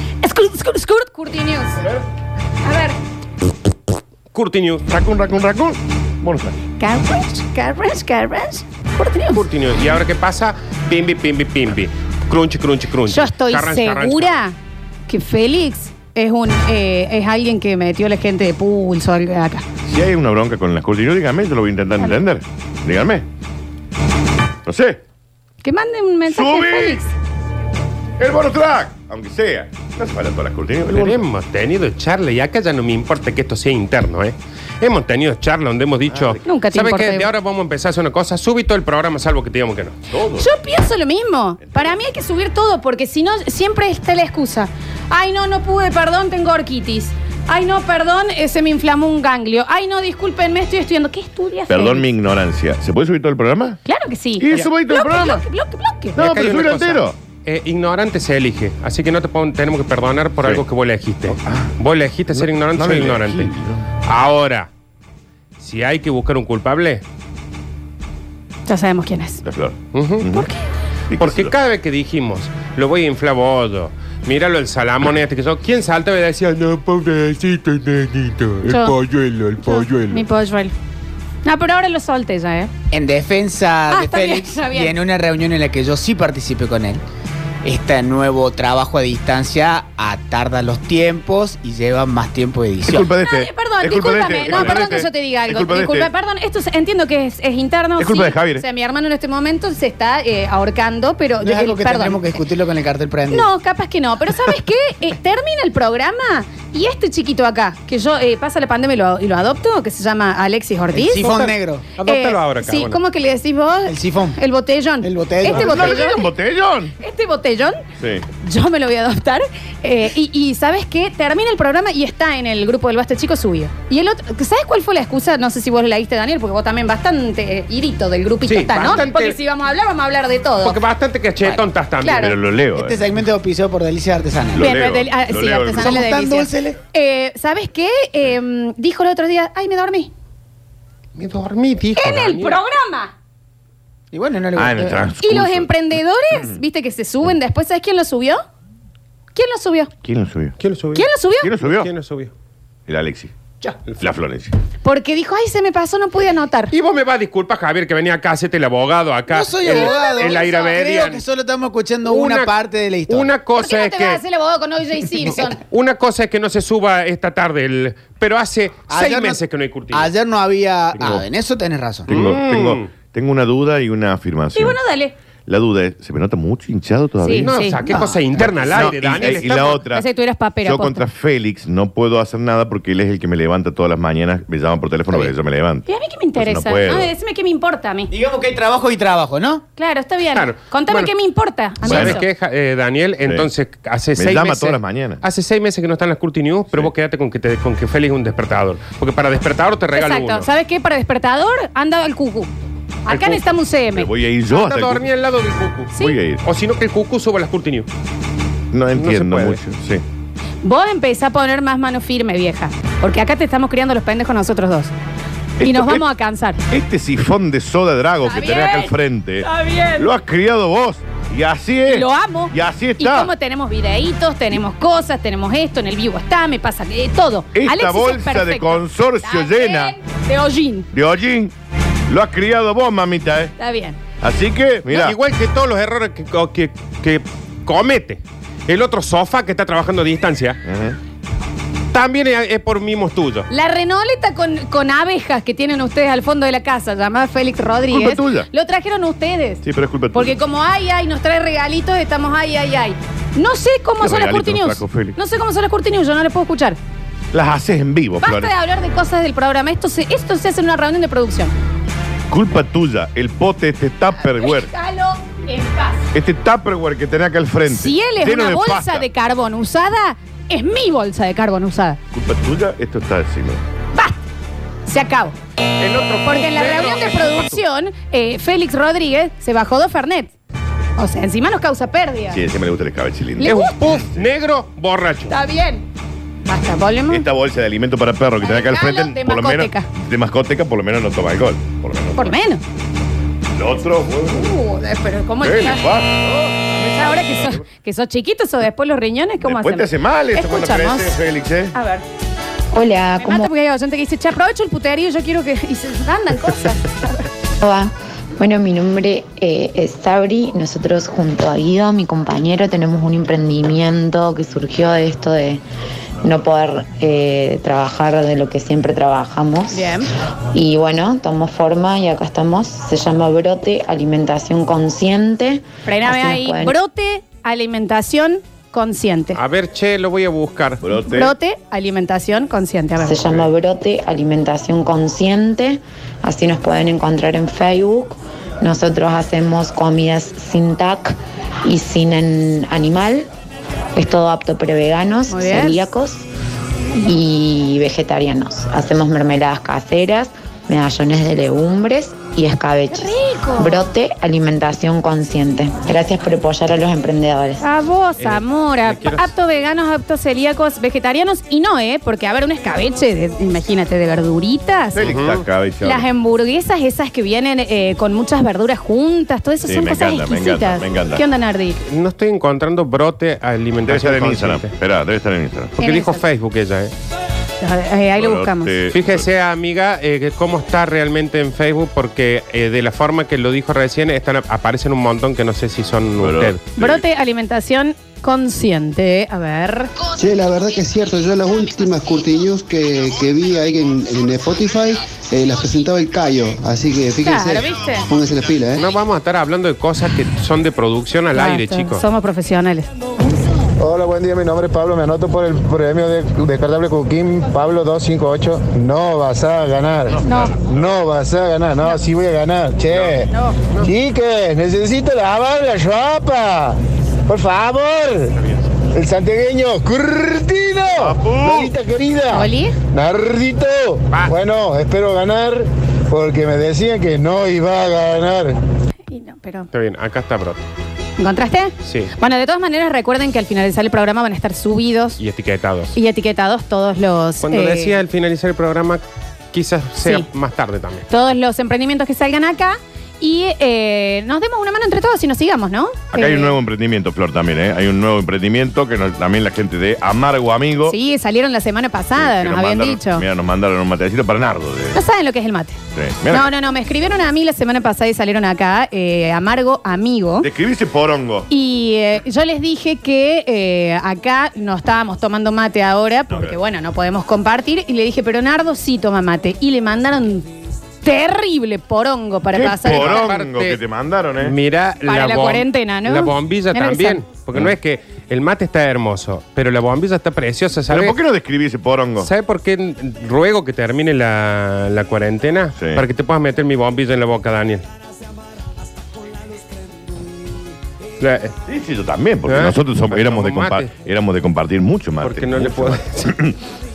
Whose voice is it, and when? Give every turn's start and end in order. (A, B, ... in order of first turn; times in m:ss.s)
0:00.2-0:01.8 A
0:02.6-0:03.0 A
0:04.3-0:04.9 B
0:04.9-0:06.6 C
0:06.8-0:09.4 A
0:09.3-0:14.4 B
0:13.1-0:14.6 A
0:15.1-0:19.6 A
0:19.8-0:23.3 C
0:24.7-0:25.0 C
0:25.6-0:27.1 A
0:26.3-0:27.0 C
0:28.2-0:31.2 C
0:30.9-0:40.0 B
0:36.1-0:36.4 C
0:36.4-0:37.3 A
0:40.1-0:40.5 C
0:40.4-0:52.0 A
0:41.6-0:42.0 C
0:51.7-0:53.8 C
0:53.8-0:56.2 A
0:54.4-0:55.4 C
0:56.2-0:57.2 C
0:56.2-1:03.5 B
1:00.4-1:00.6 C
1:01.3-1:01.7 C
1:02.3-1:03.9 C
1:04.0-1:04.7 B
1:05.6-1:07.0 B
1:08.7-1:09.4 A
1:09.4-1:10.5 C
1:09.9-1:10.3 B
1:10.3-1:10.6 A
1:11.1-1:11.5 C
1:11.2-1:20.1 B
1:18.6-1:19.0 A
1:19.6-1:20.8 A
1:21.4-1:22.7 A
1:22.9-1:27.0 D
1:23.9-1:25.0 A
1:27.6-1:33.1 D
1:32.8-1:36.1 C
1:33.2-1:42.4 A
1:34.4-1:34.9 B
1:38.0-1:38.6 C
1:41.4-1:43.5 D
1:43.3-1:51.3 A
1:50.9-1:51.9 D
1:51.2-1:53.0 B
1:52.0-1:56.3 A
1:53.9-1:54.4 D
1:55.0-1:56.0 D
1:55.5-1:56.9 C
1:57.0-1:57.8 A
1:58.0-1:58.2 C
1:58.4-2:10.8 A
2:08.5-2:09.4 B
2:10.6-2:12.3 B
2:12.0-2:12.4 A
2:12.1-2:13.1 C
2:12.7-2:14.7 D
2:14.5-2:16.1 C
2:14.6-2:20.1 A
2:15.8-2:16.8 D
2:21.2-2:22.6 B
2:22.0-2:23.1 A
2:24.1-2:25.1 D
2:24.6-2:25.7 C
2:25.2-2:28.4 A
2:29.4-2:29.9 A
2:30.0-2:30.6 C
2:30.6-2:31.1 B
2:31.0-2:31.5 A
2:31.4-2:31.9 C
2:31.6-2:32.3 B
2:32.9-2:33.3 C
2:34.0-2:34.5 C
2:34.8-2:36.7 A
2:36.7-2:41.2 B
2:39.3-2:43.3 D
2:39.7-2:40.8 A
2:42.1-2:42.5 B
2:43.1-2:44.2 B
2:43.6-2:45.6 A
2:45.7-2:50.1 B
2:48.9-2:52.1 D
2:51.0-2:51.2 C
2:52.1-2:54.8 C
2:52.1-2:52.9 B
2:54.6-2:55.2 A
2:55.5-3:00.1 C
2:57.2-2:57.8 A
2:57.4-2:59.8 B
2:57.9-2:58.8 D
2:59.9-3:01.0 A
3:00.6-3:07.1 C
3:05.9-3:08.1 A
3:08.1-3:09.6 D
3:09.8-3:12.2 A
3:10.4-3:11.1 B
3:11.8-3:20.5 B
3:11.9-3:12.2 C
3:14.2-3:15.2 C
3:19.9-3:22.5 A
3:23.0-3:24.1 A
3:23.1-3:23.4 B
3:23.9-3:25.1 C
3:24.5-3:27.9 B
3:26.0-3:26.4 C
3:28.7-3:30.0 C
3:28.9-3:29.6 B
3:30.6-3:34.9 A
3:35.6-3:36.0 C
3:35.6-3:36.6 A
3:36.7-3:43.3 C
3:38.2-3:40.1 A
3:41.9-3:50.9 A
3:47.5-3:49.9 C
3:50.9-3:51.5 C
3:52.1-3:53.5 C
3:53.6-3:54.0 A
3:54.2-3:55.2 C
3:54.9-4:00.6 B
4:00.7-4:01.0 C
4:01.9-4:03.5 B
4:03.5-4:16.8 A
4:07.9-4:08.5 C
4:09.6-4:10.4 C
4:14.0-4:15.2 C
4:17.3-4:18.5 C
4:18.2-4:21.5 A
4:22.3-4:24.7 C
4:24.2-4:26.1 A
4:26.1-4:29.1 C
4:27.7-4:32.0 A
4:32.1-4:33.6 C
4:34.9-4:35.4 A
4:35.8-4:37.6 B
4:36.2-4:40.3 A
4:41.0-4:42.4 A
4:42.3-4:44.3 C
4:43.4-4:43.8 A
4:43.4-4:45.3 B
4:45.3-4:45.9 A
4:46.5-4:47.2 A
4:47.1-4:52.4 C
4:48.4-4:49.9 A
4:52.2-4:52.6 A
4:53.5-4:54.5 C
4:54.3-4:55.9 A
4:55.4-4:57.6 C
4:56.8-5:01.2 A
4:59.4-5:01.8 C
5:01.7-5:02.0 A
5:02.7-5:03.5 E
5:03.2-5:07.2 A
5:07.6-5:15.6 E
5:16.2-5:20.0 E
5:19.7-5:20.1 A
5:20.5-5:26.8 E
5:25.8-5:29.4 A
5:29.4-5:30.8 B
5:30.8-5:31.3 C
5:31.1-5:33.3 A
5:33.0-5:43.3 E
5:44.0-5:46.3 E
5:45.3-5:45.9 A
5:47.0-5:57.6 E
5:52.9-5:53.9 A
5:57.6-6:05.1 A
5:58.2-5:59.3 B
6:05.0-6:06.1 C
6:05.0-6:05.4 B
6:05.8-6:11.8 A
6:09.6-6:11.2 C
6:11.9-6:14.7 B
6:13.8-6:15.8 C
6:15.8-6:16.2 A
6:15.8-6:16.9 B
6:17.6-6:18.8 A
6:18.2-6:19.3 C
6:18.9-6:26.6 B
6:26.2-6:27.0 C
6:26.8-6:29.9 A
6:30.2-6:38.9 F
6:37.2-6:38.1 A
6:38.8-6:42.0 B
6:41.3-6:42.9 A
6:43.8-6:58.4 G
6:50.2-6:50.6 A
6:53.3-6:53.6 A
6:58.9-7:08.6 G
7:01.0-7:01.7 C
7:02.3-7:02.8 A
7:09.1-7:09.7 A
7:09.7-7:10.7 B
7:11.2-7:15.2 A
7:11.8-7:12.1 B
7:15.2-7:16.0 B
7:15.9-7:18.0 A
7:17.4-7:19.0 B
7:19.5-7:21.1 B
7:21.1-7:26.5 A
7:26.1-7:31.0 C
7:30.9-7:33.2 A
7:32.2-7:35.0 C
7:34.9-7:40.5 A
7:36.0-7:36.5 C
7:40.4-7:41.5 C
7:41.5-7:50.5 A
7:46.3-7:46.6 C
7:51.0-7:53.3 A
7:52.5-7:54.6 C
7:52.9-7:53.8 B
7:54.4-8:01.2 B
7:55.1-7:57.2 A
8:00.9-8:02.3 C
8:02.2-8:07.8 B
8:05.8-8:06.0 C
8:11.2-8:11.6 B
8:11.7-8:16.6 C
8:12.5-8:13.9 B
8:15.2-8:16.3 B